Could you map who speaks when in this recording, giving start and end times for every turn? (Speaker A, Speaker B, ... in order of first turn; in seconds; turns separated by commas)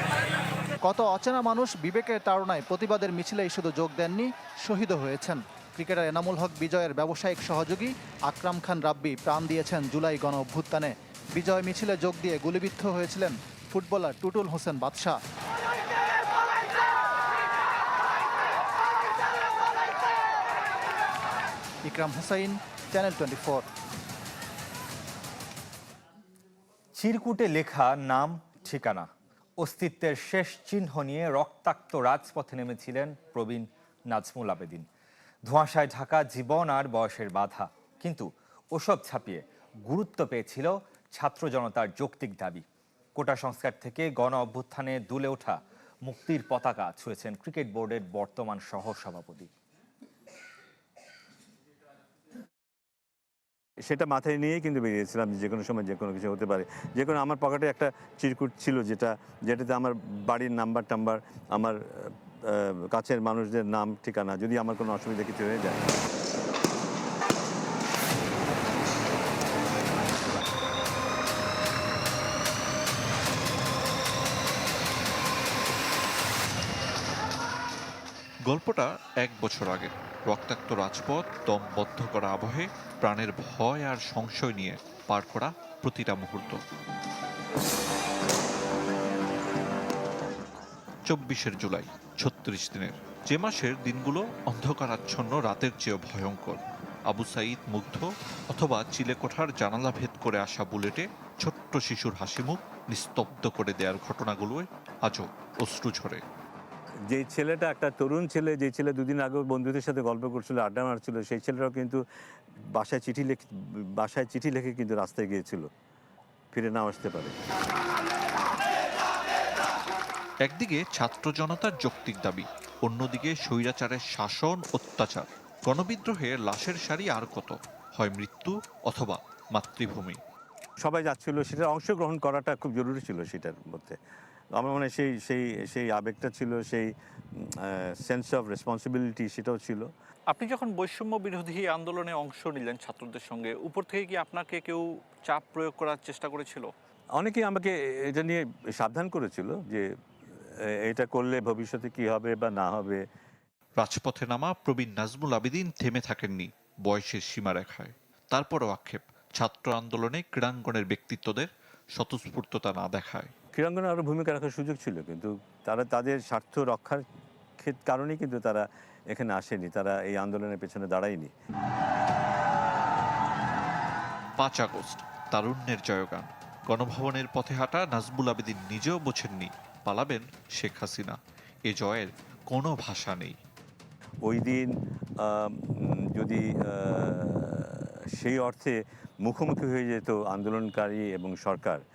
Speaker A: 0.8-15.2, Speaker A: 21.9-23.6, Speaker B: 26.9-34.9, Speaker B: 35.5-49.5, Speaker C: 53.9-65.8, Speaker D: 78.5-86.6, Speaker D: 91.1-106.2, Speaker C: 107.1-112.0, Speaker C: 112.8-113.5, Speaker C: 114.0-115.7, Speaker C: 116.5-117.3, Speaker D: 120.4-130.2, Speaker C: 130.8-134.0, Speaker C: 134.6-136.9, Speaker C: 137.7-139.9, Speaker E: 140.3-146.7, Speaker C: 147.2-149.8, Speaker C: 150.8-153.0, Speaker D: 153.8-163.3, Speaker C: 163.6-167.0, Speaker C: 167.6-171.3, Speaker D: 174.4-183.4, Speaker C: 184.3-184.7, Speaker C: 185.2-185.5, Speaker C: 186.2-188.7, Speaker C: 189.2-191.8